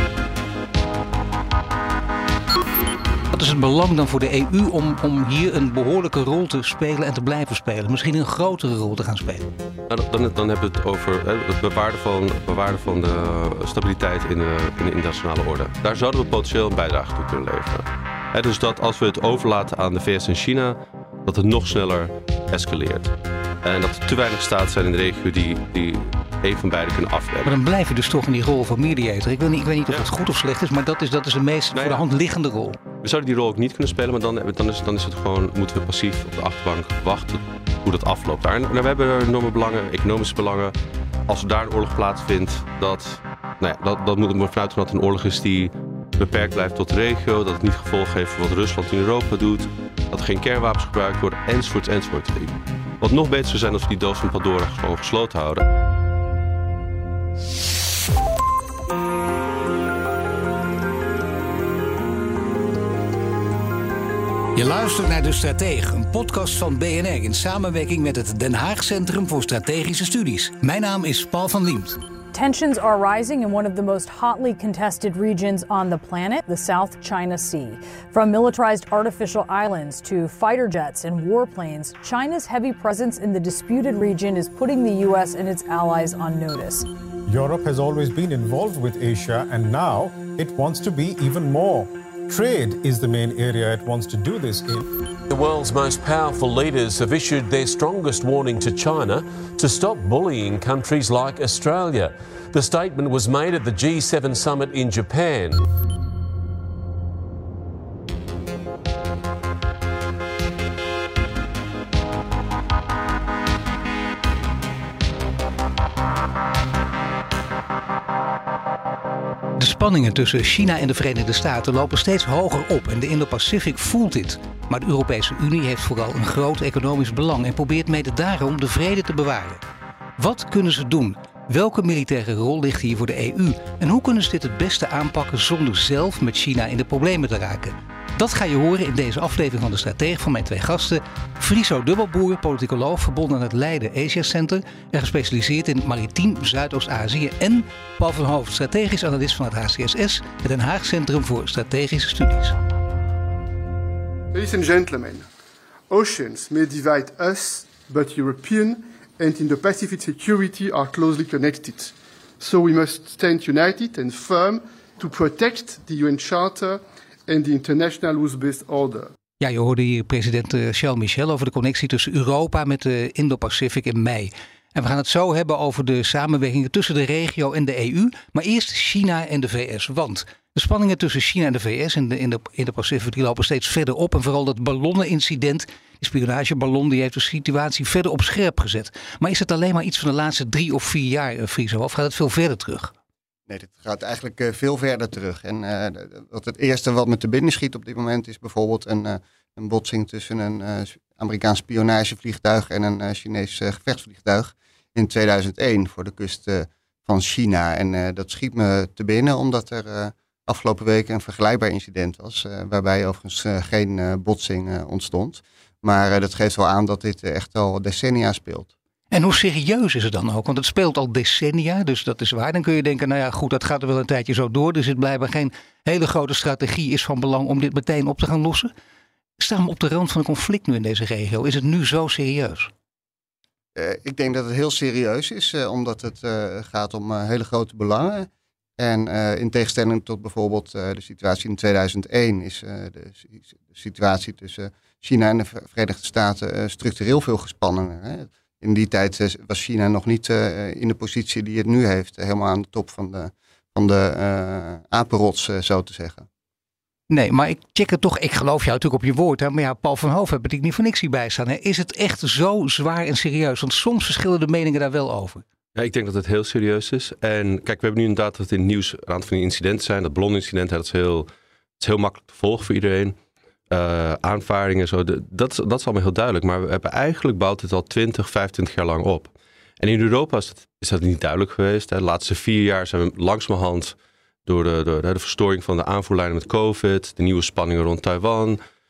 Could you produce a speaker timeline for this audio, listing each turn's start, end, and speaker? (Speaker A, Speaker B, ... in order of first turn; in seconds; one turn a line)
Speaker A: 3.3-9.5
Speaker B: 9.9-23.1
Speaker B: 23.6-27.5
Speaker A: 27.4-32.8
Speaker B: 31.8-32.0
Speaker B: 33.0-40.8
Speaker B: 41.3-55.7
Speaker A: 64.5-72.0
Speaker C: 72.3-86.9
Speaker D: 87.3-94.9
Speaker E: 95.3-105.7
Speaker A: 119.6-129.6
Speaker A: 130.2-152.6
Speaker F: 154.3-155.3
Speaker F: 155.9-169.1
Speaker A: 169.4-192.9
Speaker G: 193.5-218.7
Speaker A: 219.1-228.7
Speaker A: 229.4-232.7
Speaker G: 233.8-256.3
Speaker A: 257.1-265.4
Speaker B: 265.8-271.3
Speaker B: 271.8-273.2
Speaker B: 273.7-288.6